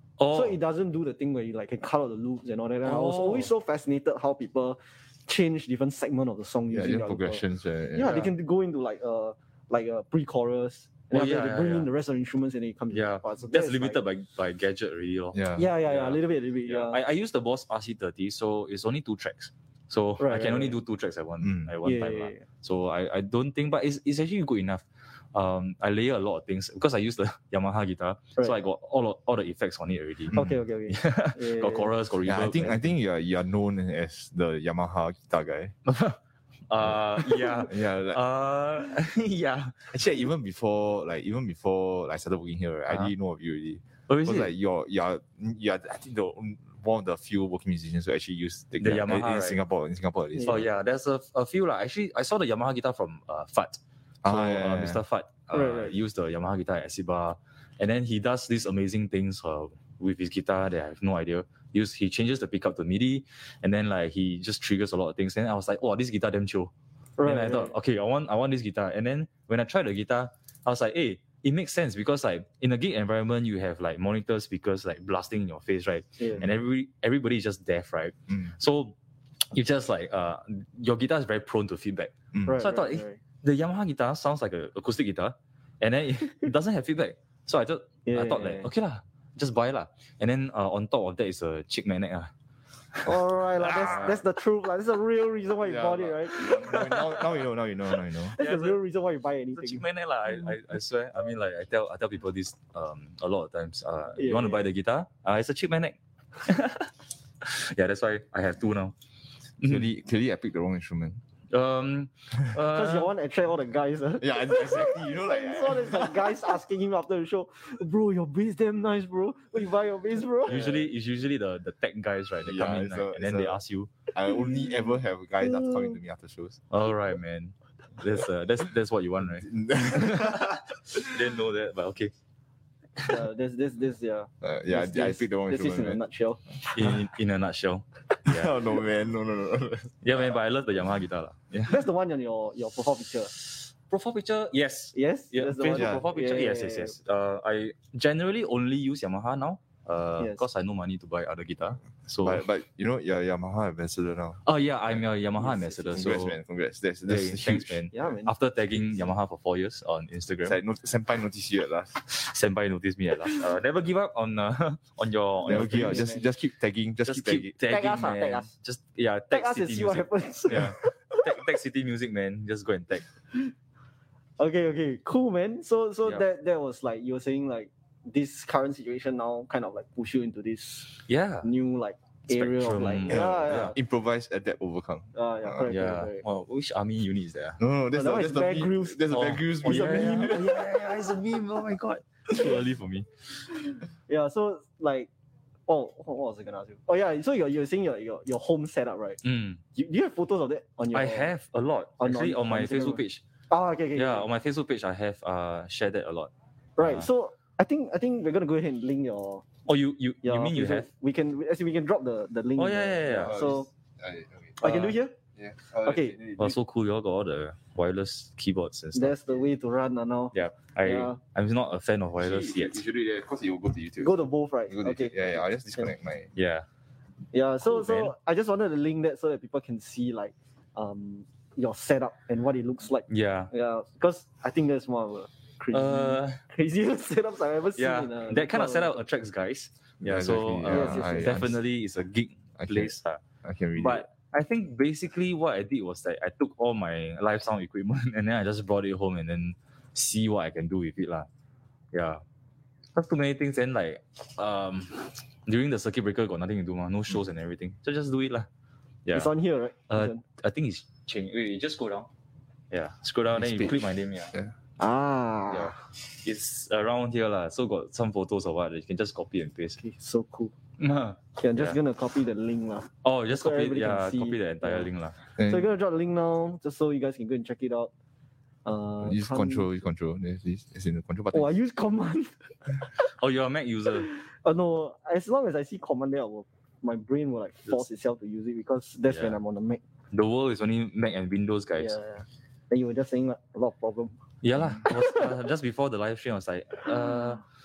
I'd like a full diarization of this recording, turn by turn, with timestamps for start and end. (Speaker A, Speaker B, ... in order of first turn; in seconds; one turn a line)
Speaker A: 0.2-0.6
Speaker B: 0.3-7.4
Speaker A: 2.9-3.5
Speaker C: 6.7-8.3
Speaker B: 7.9-14.0
Speaker A: 11.1-11.9
Speaker A: 12.9-32.9
Speaker C: 15.3-15.7
Speaker B: 15.5-17.0
Speaker B: 20.2-20.8
Speaker C: 21.4-21.8
Speaker B: 21.8-22.4
Speaker B: 30.3-31.9
Speaker C: 30.3-30.6
Speaker C: 32.2-35.8
Speaker A: 35.9-39.9
Speaker C: 36.8-38.2
Speaker C: 39.9-50.6
Speaker A: 44.1-44.5
Speaker A: 48.8-49.6
Speaker A: 50.4-66.7
Speaker C: 54.2-55.0
Speaker B: 55.5-55.9
Speaker B: 67.2-67.7
Speaker A: 67.2-79.0
Speaker A: 79.5-92.3
Speaker C: 82.3-82.6
Speaker B: 82.5-83.2
Speaker B: 88.0-88.7
Speaker A: 92.9-94.1
Speaker B: 93.0-96.8
Speaker C: 93.6-94.2
Speaker C: 95.6-98.4
Speaker A: 96.3-97.2
Speaker B: 98.3-99.8
Speaker A: 98.4-98.8
Speaker A: 99.5-106.9
Speaker B: 104.2-104.7
Speaker A: 107.4-108.9
Speaker A: 109.6-109.9
Speaker C: 109.6-111.2
Speaker A: 111.5-113.1
Speaker B: 112.7-120.9
Speaker C: 114.2-116.5
Speaker A: 120.5-123.9
Speaker C: 122.4-123.6
Speaker C: 124.1-126.6
Speaker B: 124.2-126.0
Speaker A: 126.7-132.1
Speaker C: 129.4-131.1
Speaker B: 133.0-137.0
Speaker C: 134.4-136.0
Speaker A: 136.7-138.5
Speaker C: 138.2-140.0
Speaker A: 140.0-141.8
Speaker B: 141.7-143.3
Speaker A: 143.6-152.4
Speaker B: 144.9-146.9
Speaker C: 145.7-146.0
Speaker B: 150.2-150.4
Speaker C: 152.2-155.0
Speaker A: 154.4-156.4
Speaker B: 155.4-156.1
Speaker C: 155.9-157.8
Speaker A: 157.1-160.6
Speaker B: 157.9-158.3
Speaker C: 160.4-162.0
Speaker A: 162.0-166.1
Speaker B: 165.4-166.2
Speaker C: 165.4-167.5
Speaker A: 167.1-173.1
Speaker B: 167.6-168.5
Speaker B: 169.3-171.3
Speaker B: 174.4-183.8
Speaker A: 181.1-181.5
Speaker A: 182.3-183.8
Speaker C: 183.1-185.6
Speaker B: 185.1-186.2
Speaker A: 185.7-187.6
Speaker C: 187.6-190.5
Speaker B: 187.9-190.7
Speaker A: 189.1-193.1
Speaker B: 194.1-195.1
Speaker B: 195.7-199.2
Speaker A: 199.2-199.6
Speaker B: 199.8-201.3
Speaker A: 200.9-203.2
Speaker B: 202.0-204.3
Speaker A: 203.9-207.1
Speaker B: 206.8-209.4
Speaker A: 209.7-210.9
Speaker B: 210.2-213.7
Speaker A: 212.6-213.4
Speaker C: 213.2-214.6
Speaker B: 214.6-215.1
Speaker A: 214.6-214.9
Speaker C: 215.4-216.6
Speaker B: 215.8-216.2
Speaker A: 216.4-219.2
Speaker B: 218.9-221.2
Speaker A: 220.3-222.8
Speaker C: 222.2-226.3
Speaker B: 224.0-225.9
Speaker A: 226.3-226.7
Speaker B: 227.3-239.0
Speaker A: 227.6-228.1
Speaker A: 233.1-233.5
Speaker A: 235.7-236.4
Speaker A: 237.8-243.2
Speaker C: 240.0-241.6
Speaker B: 240.7-241.4
Speaker C: 242.6-244.1
Speaker A: 243.8-251.3
Speaker A: 251.9-252.2
Speaker A: 252.9-258.5
Speaker B: 259.1-260.2
Speaker A: 259.9-262.1
Speaker A: 262.7-264.3
Speaker C: 263.3-263.8
Speaker B: 264.8-265.8
Speaker A: 265.5-269.8
Speaker B: 269.8-270.5
Speaker A: 270.8-271.8
Speaker B: 271.4-274.9
Speaker A: 273.0-275.2
Speaker C: 275.4-275.7
Speaker B: 275.4-277.9
Speaker B: 278.6-279.7
Speaker C: 279.0-281.5
Speaker B: 281.3-282.9
Speaker A: 283.0-284.1
Speaker B: 284.0-289.8
Speaker A: 289.1-289.4
Speaker A: 290.1-292.0
Speaker B: 291.8-294.1
Speaker A: 294.4-297.4
Speaker B: 294.9-295.3